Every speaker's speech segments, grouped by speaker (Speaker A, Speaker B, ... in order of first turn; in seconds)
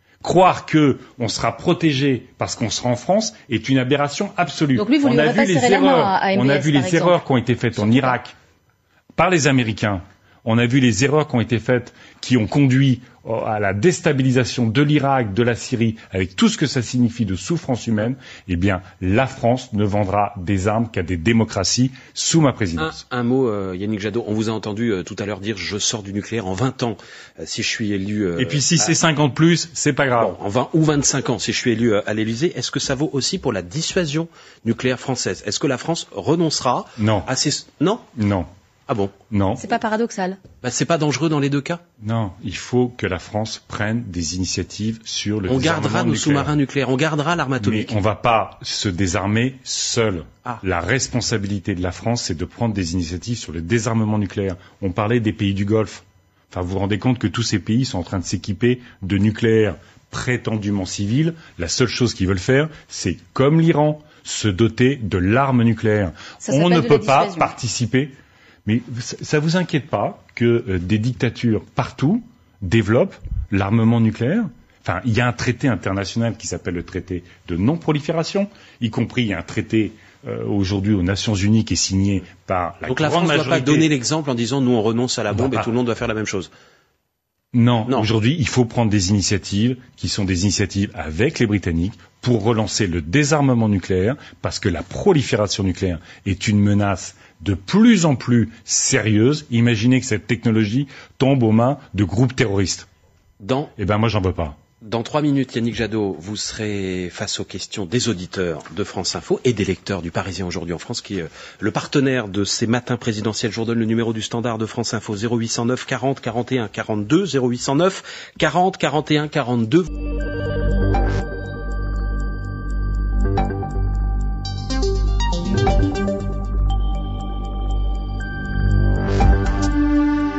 Speaker A: 0.2-8.3, 9.2-22.9, 28.4-30.3, 37.0-37.3, 38.1-38.5, 39.3-39.6, 42.0-46.5, 47.6-68.1, 68.7-83.9, 85.3-85.7, 87.5-102.9, 103.8-104.6
Speaker B: 4.8-7.2, 7.8-8.2, 39.6-40.4, 66.4-67.5
Speaker C: 22.8-28.9, 30.2-38.1, 38.9-39.1, 40.6-41.8, 45.5-47.9, 82.9-86.5, 103.4-103.7, 104.8-119.9